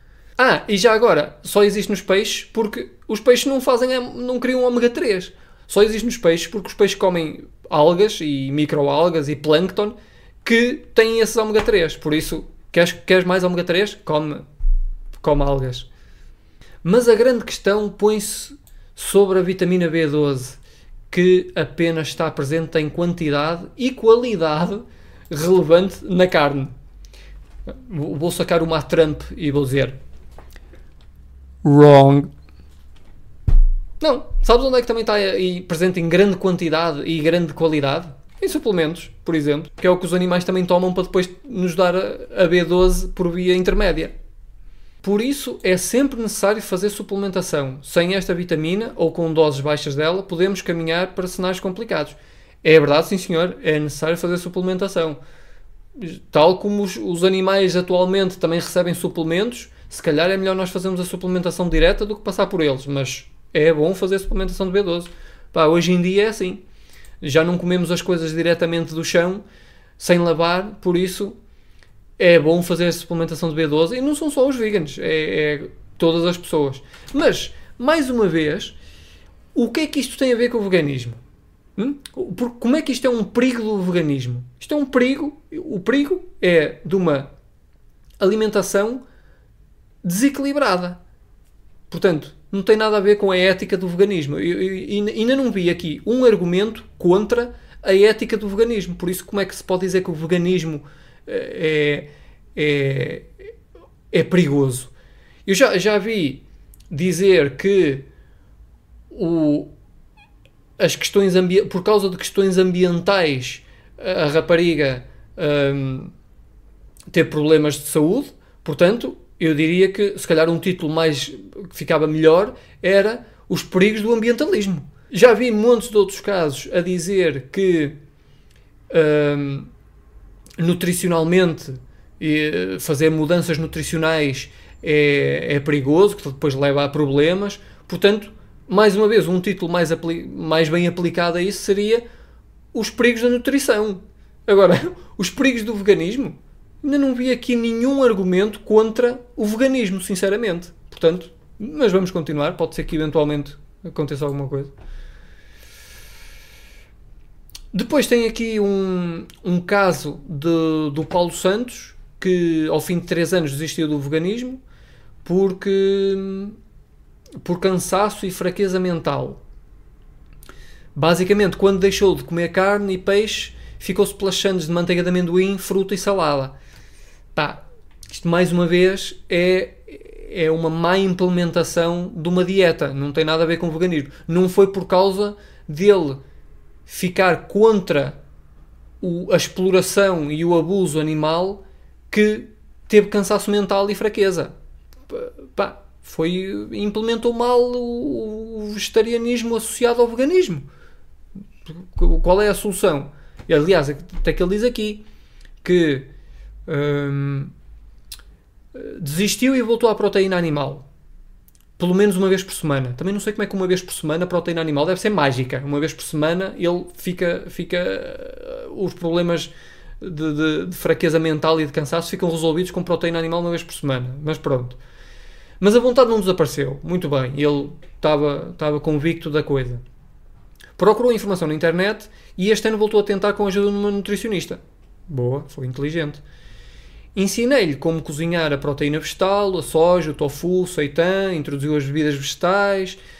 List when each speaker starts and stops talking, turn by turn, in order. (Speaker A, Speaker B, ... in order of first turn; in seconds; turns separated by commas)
Speaker A: 0.4-14.4, Speaker A: 15.2-15.9, Speaker A: 16.8-20.6, Speaker A: 21.1-26.7, Speaker A: 27.7-30.0, Speaker A: 31.6-32.3, Speaker A: 34.0-44.1, Speaker A: 45.0-55.2, Speaker A: 56.0-66.6, Speaker A: 67.2-69.4, Speaker A: 70.0-71.3, Speaker A: 72.2-78.8, Speaker A: 79.5-81.2, Speaker A: 81.8-87.3, Speaker A: 88.2-89.0, Speaker A: 90.0-91.0, Speaker A: 91.9-103.3, Speaker A: 104.1-104.9, Speaker A: 105.5-108.1, Speaker A: 109.1-109.7, Speaker A: 110.8-116.1, Speaker A: 117.1-128.0, Speaker A: 128.9-129.7, Speaker A: 130.6-142.0, Speaker A: 142.7-154.7, Speaker A: 157.7-164.6, Speaker A: 165.2-166.6, Speaker A: 167.4-169.4, Speaker A: 170.9-176.5, Speaker A: 177.3-186.2, Speaker A: 186.9-188.2, Speaker A: 189.0-194.5, Speaker A: 195.1-200.7, Speaker A: 201.8-205.0, Speaker A: 205.6-206.1, Speaker A: 206.7-207.5, Speaker A: 208.7-210.8, Speaker A: 211.8-224.8, Speaker A: 225.6-229.8, Speaker A: 230.8-236.2, Speaker A: 237.1-243.0